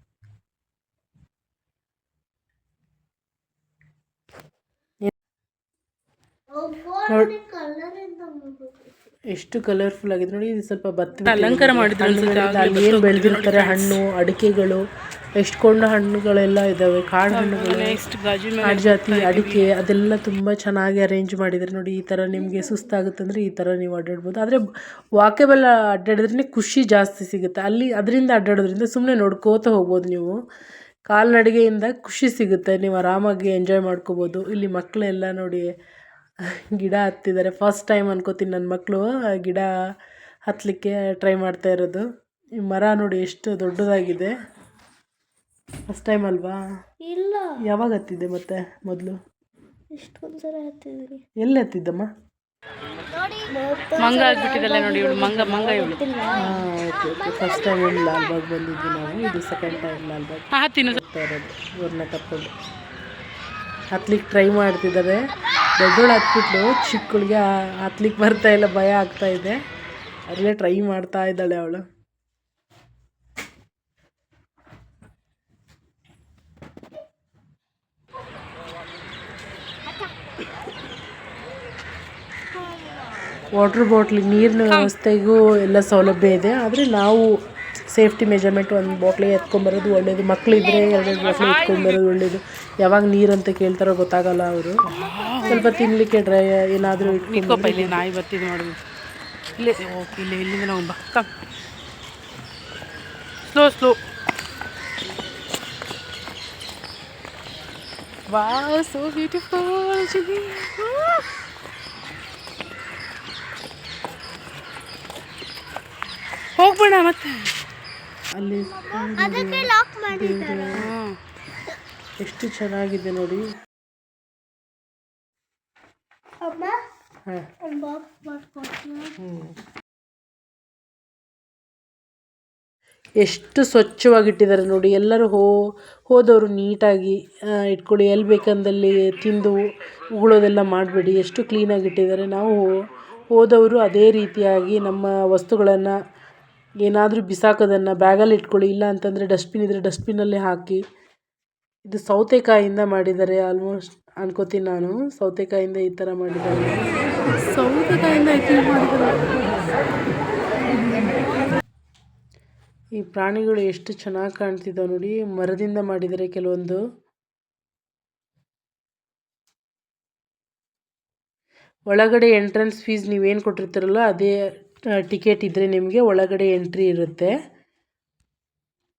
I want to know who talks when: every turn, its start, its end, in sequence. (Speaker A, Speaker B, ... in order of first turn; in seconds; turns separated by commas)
Speaker A: 6.6-8.7, Speaker B: 7.1-7.3, Speaker B: 9.3-14.8, Speaker C: 11.3-14.0, Speaker B: 15.4-18.0, Speaker C: 17.3-19.7, Speaker B: 18.6-24.6, Speaker B: 25.2-30.4, Speaker B: 31.1-35.7, Speaker B: 36.7-39.7, Speaker B: 40.5-42.0, Speaker B: 42.6-44.3, Speaker B: 45.9-46.6, Speaker A: 47.1-47.5, Speaker B: 47.6-49.2, Speaker A: 49.9-51.2, Speaker B: 51.4-52.1, Speaker A: 53.5-55.0, Speaker C: 54.0-56.1, Speaker A: 55.8-56.4, Speaker B: 56.3-62.5, Speaker C: 60.5-61.0, Speaker B: 63.9-65.2, Speaker B: 65.8-69.6, Speaker B: 70.3-71.8, Speaker B: 83.5-87.2, Speaker B: 87.9-94.8, Speaker C: 91.2-92.0, Speaker C: 94.8-95.7, Speaker B: 95.4-98.0, Speaker C: 97.0-98.8, Speaker C: 99.6-101.3, Speaker C: 103.5-104.0, Speaker C: 108.3-111.2, Speaker C: 116.5-117.5, Speaker B: 118.3-120.9, Speaker A: 118.8-120.7, Speaker C: 120.7-121.2, Speaker B: 122.2-123.5, Speaker A: 126.4-126.8, Speaker B: 127.3-127.6, Speaker A: 127.6-129.2, Speaker B: 129.2-129.5, Speaker B: 133.2-135.5, Speaker B: 136.1-139.6, Speaker B: 140.1-145.9, Speaker B: 146.8-150.8, Speaker B: 151.9-159.3, Speaker B: 163.0-166.8, Speaker B: 171.9-174.3, Speaker B: 175.0-177.3